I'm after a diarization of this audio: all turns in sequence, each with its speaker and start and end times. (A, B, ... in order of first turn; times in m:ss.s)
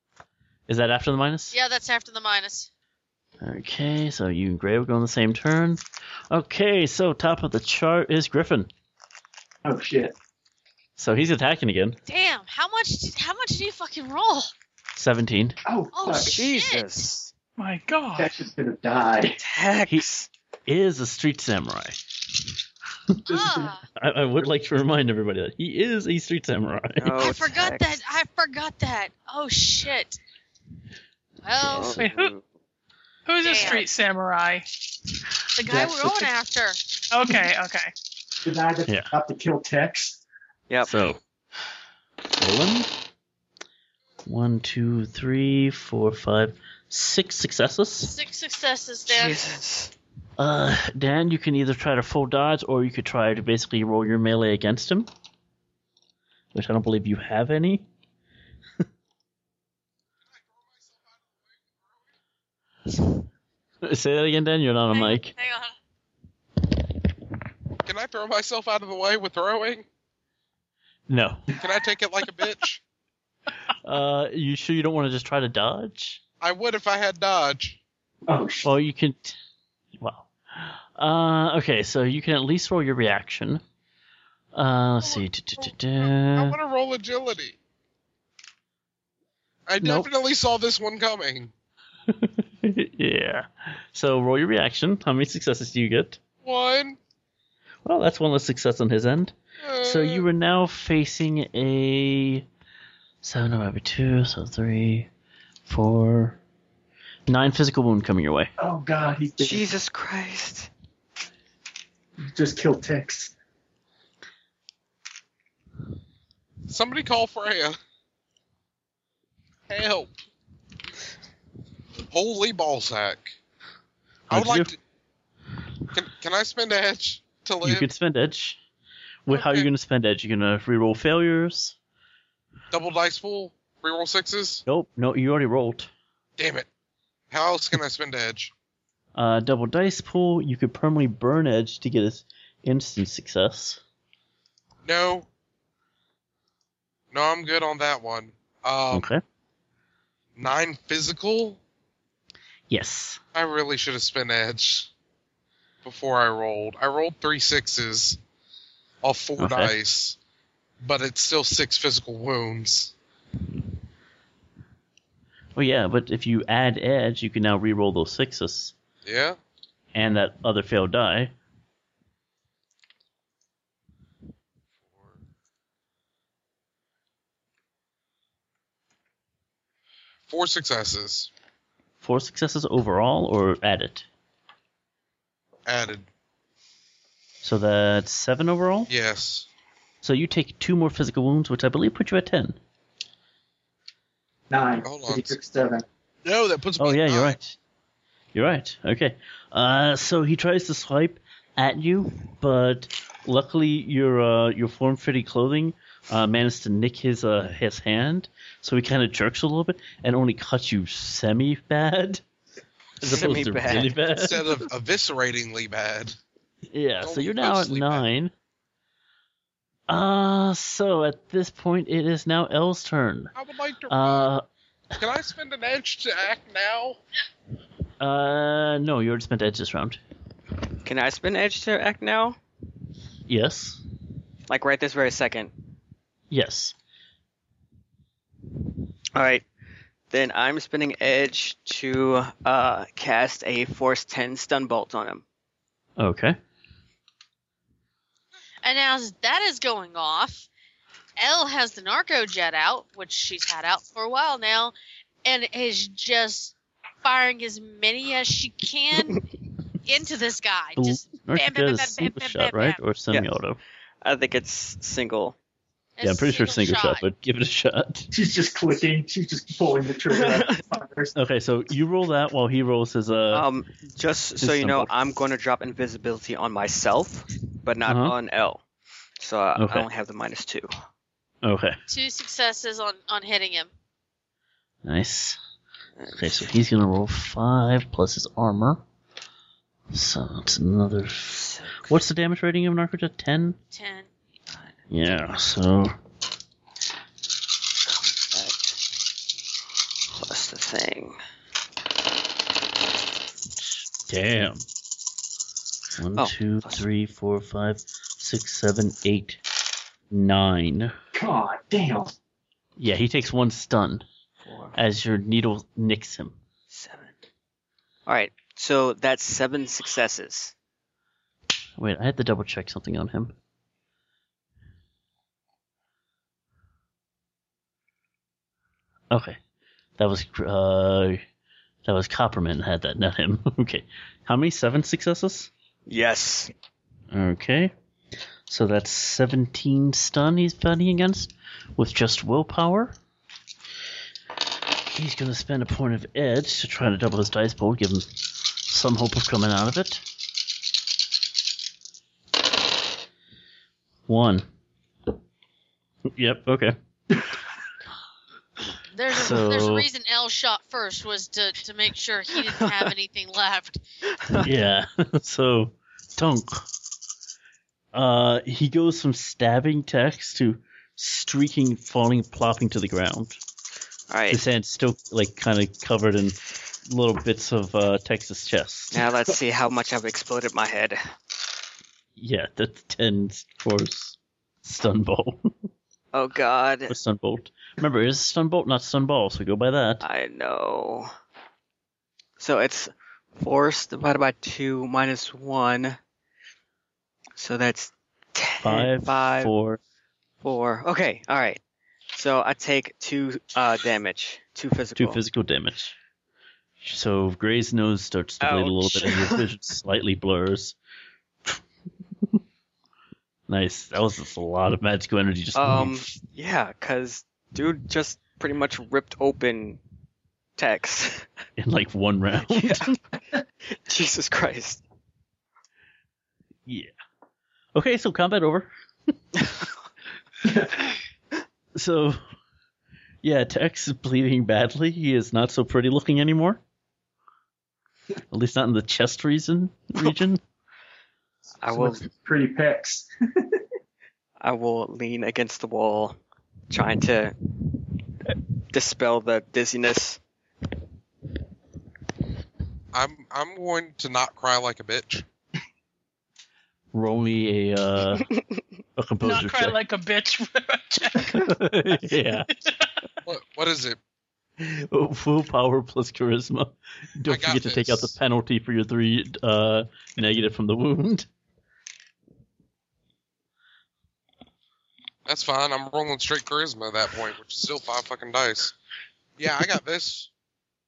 0:00.7-0:01.6 A
0:01.5-0:02.7 B
0:03.4-0:08.7 A
0:09.6-0:10.1 C
0:11.0-0:12.0 A
0:12.0-0:14.5 B
0:15.0-0:15.6 A
0:15.6-0:16.4 C
0:15.9-0:17.0 B
0:16.3-0:17.3 D
0:17.6-0:18.3 E
0:18.2-0:19.4 C
0:19.4-0:20.3 D
0:20.6-0:22.0 A
0:23.3-0:23.7 C
0:23.3-0:23.8 B
0:24.0-0:27.2 A
0:27.0-0:27.9 D
0:27.1-0:30.2 B
0:31.4-0:32.0 B
0:31.6-0:32.4 D
0:31.9-0:32.3 E
0:33.2-0:34.6 E
0:33.4-0:33.9 B
0:35.5-0:36.8 B
0:35.7-0:36.3 C
0:37.1-0:37.9 E
0:38.4-0:40.2 C
0:40.7-0:41.0 D
0:40.8-0:41.2 A
0:42.4-0:42.9 A
0:44.2-0:48.1 A
0:48.0-0:49.5 B
0:49.1-0:49.9 D
0:50.4-0:55.1 A
0:56.5-0:57.8 A
1:00.8-1:01.2 F
1:03.8-1:05.3 A
1:04.9-1:05.7 B
1:07.8-1:09.8 F
1:11.1-1:11.5 A
1:11.6-1:12.8 F
1:13.8-1:16.2 A
1:16.4-1:17.8 F
1:18.3-1:18.7 C
1:18.6-1:19.4 A
1:20.0-1:23.6 A
1:24.5-1:26.6 A
1:25.0-1:27.6 F
1:29.7-1:31.5 F
1:29.8-1:30.1 A
1:32.1-1:36.2 A
1:36.4-1:37.0 F
1:37.8-1:42.4 A
1:39.6-1:40.3 F
1:43.2-1:45.1 A
1:45.7-1:46.4 A
1:47.3-1:48.5 A
1:48.6-1:49.7 C
1:49.4-1:50.7 D
1:52.3-1:53.3 C
1:56.7-1:57.8 F
1:59.7-2:00.1 F
2:02.1-2:03.3 F
2:04.3-2:04.7 A
2:04.3-2:04.8 F
2:05.9-2:07.8 F
2:07.6-2:08.6 A
2:09.2-2:11.8 A
2:09.3-2:09.7 F
2:12.7-2:14.6 F
2:14.6-2:15.9 A
2:16.4-2:16.7 F
2:17.3-2:18.5 F
2:19.1-2:23.8 A
2:24.8-2:25.3 F
2:27.1-2:29.1 F
2:28.9-2:29.2 A
2:30.4-2:31.6 F
2:32.7-2:33.2 A
2:33.3-2:34.9 F
2:35.8-2:38.2 F
2:39.0-2:40.2 F
2:39.4-2:39.7 A
2:40.8-2:42.9 F
2:45.6-2:48.7 A
2:49.0-2:49.4 F
2:49.9-2:51.3 A
2:54.9-2:55.2 F
3:00.3-3:01.3 F
3:02.0-3:04.0 A
3:05.6-3:06.1 F
3:07.4-3:08.9 A
3:08.9-3:09.5 F
3:10.0-3:12.6 A
3:14.5-3:15.8 C
3:14.8-3:15.4 F
3:16.2-3:17.4 F
3:16.8-3:17.6 A
3:18.3-3:32.2 A
3:33.0-3:34.0 D
3:33.0-3:34.6 A
3:34.2-3:36.2 F
3:36.7-3:38.3 A
3:37.0-3:38.0 F
3:39.9-3:43.3 A
3:43.3-3:44.3 F
3:43.9-3:44.4 A
3:45.0-3:47.0 F
3:48.0-3:50.0 A
3:50.8-3:52.4 D
3:53.3-3:53.8 A
3:54.5-3:55.5 D
3:56.3-3:56.7 A
3:59.1-3:59.4 D
4:00.1-4:05.2 D
4:06.0-4:06.4 A
4:08.6-4:10.5 B
4:11.2-4:19.2 B
4:19.8-4:22.8 B
4:20.8-4:23.6 A
4:24.0-4:25.4 D
4:26.0-4:27.0 B
4:26.0-4:28.1 A
4:28.1-4:31.1 C
4:30.1-4:30.6 D
4:31.1-4:33.4 A
4:33.3-4:38.6 D
4:34.4-4:34.9 A
4:37.8-4:38.1 A
4:39.2-4:40.7 D
4:39.6-4:39.9 A
4:41.4-4:41.8 A
4:41.9-4:43.7 B
4:44.8-4:45.4 A
4:46.0-4:46.5 D
4:46.2-4:48.8 A
4:49.9-4:53.6 A
4:51.3-4:51.9 D
4:53.7-4:54.1 B
4:54.9-4:56.0 A
4:58.2-4:58.8 D
5:00.1-5:01.2 D
5:04.1-5:04.6 A
5:06.0-5:09.4 A
5:06.2-5:06.8 D
5:10.1-5:10.9 A
5:11.1-5:12.1 C
5:12.8-5:14.0 A
5:14.4-5:14.8 D
5:14.8-5:16.4 A
5:16.7-5:17.2 D
5:18.0-5:20.5 D
5:21.8-5:23.3 A
5:29.1-5:29.4 A
5:30.0-5:31.2 A
5:31.8-5:35.5 A
5:35.9-5:36.5 D
5:37.1-5:37.7 A
5:38.5-5:43.0 A
5:44.9-5:48.1 A
5:48.7-5:50.0 A
5:54.1-5:54.5 A
5:56.1-5:56.7 A
5:58.9-6:03.8 B
5:59.1-5:59.9 A
6:04.1-6:04.5 D
6:04.4-6:06.6 A
6:07.9-6:13.4 A
6:14.1-6:14.4 D
6:14.3-6:19.0 A
6:18.9-6:21.0 D
6:22.2-6:25.7 A
6:26.1-6:27.0 D
6:26.9-6:30.0 A
6:30.0-6:31.1 D
6:32.4-6:36.0 D
6:37.4-6:39.5 D
6:38.6-6:39.8 A
6:40.4-6:41.6 D
6:42.1-6:45.2 D
6:45.0-6:45.9 A
6:46.8-6:50.8 A
6:48.4-6:49.5 D
6:53.5-6:56.0 A
6:55.5-6:59.8 D
7:00.6-7:01.3 D
7:01.6-7:02.9 A
7:02.5-7:03.2 D
7:03.7-7:04.8 D
7:06.7-7:06.9 A
7:07.7-7:08.7 A
7:10.4-7:10.7 C
7:11.7-7:12.2 A
7:13.2-7:16.6 A
7:18.3-7:20.4 A
7:21.6-7:22.0 D
7:21.7-7:23.6 C
7:24.4-7:26.2 D
7:26.7-7:27.7 D
7:28.3-7:30.2 D
7:32.9-7:35.2 F
7:36.9-7:38.3 A
7:38.2-7:38.6 D
7:39.0-7:39.8 A
7:39.2-7:41.5 E
7:41.3-7:42.5 A
7:42.6-7:43.0 E
7:43.2-7:44.0 F
7:44.6-7:51.3 A
7:47.2-7:48.1 F
7:55.2-7:58.7 F
7:59.4-8:00.3 F